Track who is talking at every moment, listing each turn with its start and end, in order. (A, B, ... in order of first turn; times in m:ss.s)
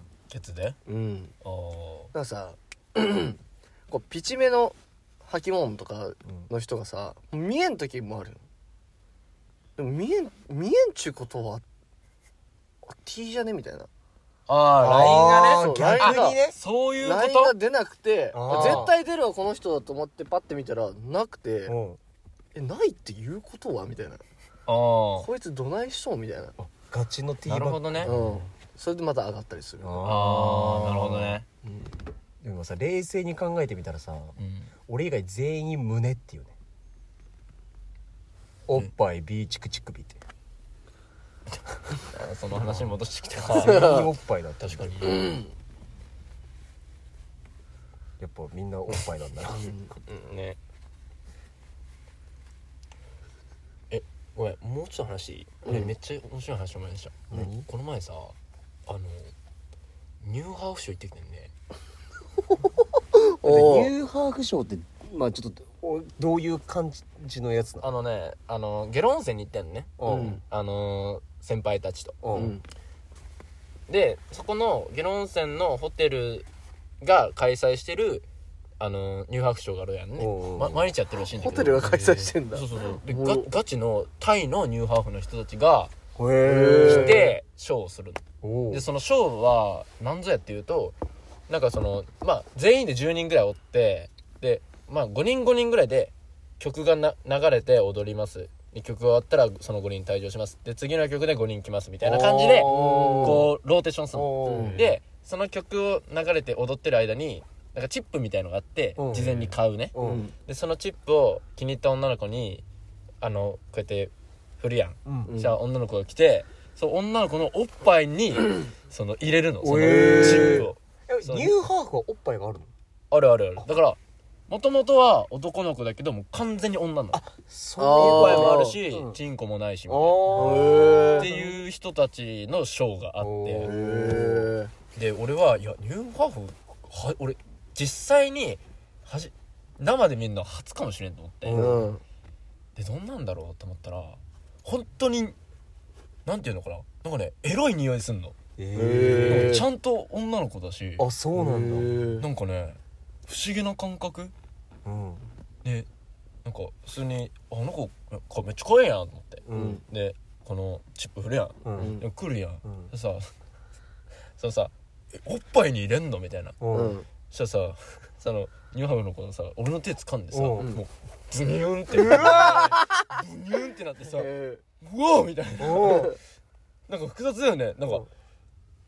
0:00.3-0:00.8 A
0:00.9-0:01.3 B
0:01.4-0:02.1 A
0:02.1-0:08.4 B
0:09.8-0:11.6 B
0:12.8-0:13.9 B
0:14.5-0:17.6 A
0:14.8-0:16.6 C
0:15.6-0:16.4 B
0:17.0-0:21.8 B
0:18.3-0:19.0 C
0:18.5-0:18.9 A
0:21.7-0:22.0 C
0:22.6-0:24.2 B
0:24.7-0:25.3 A
0:25.2-0:26.6 B
0:26.6-0:28.1 C
0:27.4-0:28.2 A
0:28.0-0:30.1 B
0:29.8-0:31.4 C
0:30.0-0:31.5 A
0:31.6-0:31.9 B
0:32.4-0:34.4 C
0:34.4-0:34.7 A
0:34.9-0:36.6 C
0:38.7-0:40.2 C
0:41.9-0:44.0 A
0:43.5-0:45.0 C
0:43.5-0:44.1 B
0:44.6-0:45.4 A
0:45.0-0:45.5 B
0:48.2-0:49.7 C
0:49.5-0:50.0 B
0:50.0-0:50.6 A
0:53.9-0:58.4 A
0:55.6-0:55.9 B
0:57.3-0:57.7 C
0:58.9-0:59.3 A
1:00.2-1:01.5 A
1:03.1-1:03.9 B
1:03.4-1:07.9 C
1:07.8-1:12.3 A
1:10.0-1:10.4 C
1:10.0-1:10.4 B
1:12.2-1:12.6 C
1:12.3-1:12.6 B
1:13.9-1:16.5 A
1:17.0-1:18.3 A
1:18.8-1:25.9 A
1:20.2-1:20.9 C
1:21.1-1:23.6 B
1:26.2-1:27.2 C
1:26.4-1:27.4 B
1:26.9-1:31.0 A
1:28.4-1:28.9 C
1:31.5-1:52.6 A
1:42.0-1:43.5 C
1:42.6-1:43.5 B
1:44.1-1:44.8 C
1:44.4-1:44.8 B
1:49.0-1:49.4 C
1:49.9-1:50.3 C
1:50.0-1:50.3 B
1:53.2-2:01.6 A
1:55.1-1:55.3 C
1:55.3-1:55.6 B
1:59.6-2:02.7 C
1:59.8-2:00.7 B
2:03.1-2:04.0 A
2:04.5-2:07.2 A
2:07.1-2:09.2 C
2:07.8-2:08.8 B
2:07.9-2:13.8 A
2:09.9-2:11.5 C
2:10.3-2:11.5 B
2:13.2-2:14.5 C
2:13.6-2:14.7 B
2:14.9-2:21.6 A
2:21.4-2:21.9 C
2:21.5-2:22.0 B
2:22.8-2:25.4 A
2:26.3-2:28.4 A
2:28.6-2:29.6 C
2:28.8-2:29.7 B
2:29.1-2:31.1 A
2:31.0-2:32.0 C
2:31.4-2:32.3 B
2:32.2-2:34.3 A
2:34.8-2:35.3 C
2:36.4-2:43.3 A
2:39.5-2:39.8 C
2:39.6-2:39.8 B
2:41.6-2:42.0 C
2:41.8-2:42.0 B
2:42.6-2:42.9 C
2:44.4-2:46.6 A
2:46.6-2:47.0 C
2:46.7-2:47.1 B
2:47.2-2:56.2 A
2:50.3-2:50.8 C
2:52.3-2:53.1 B
2:54.0-2:54.6 B
2:55.6-2:56.2 C
2:56.9-2:58.1 A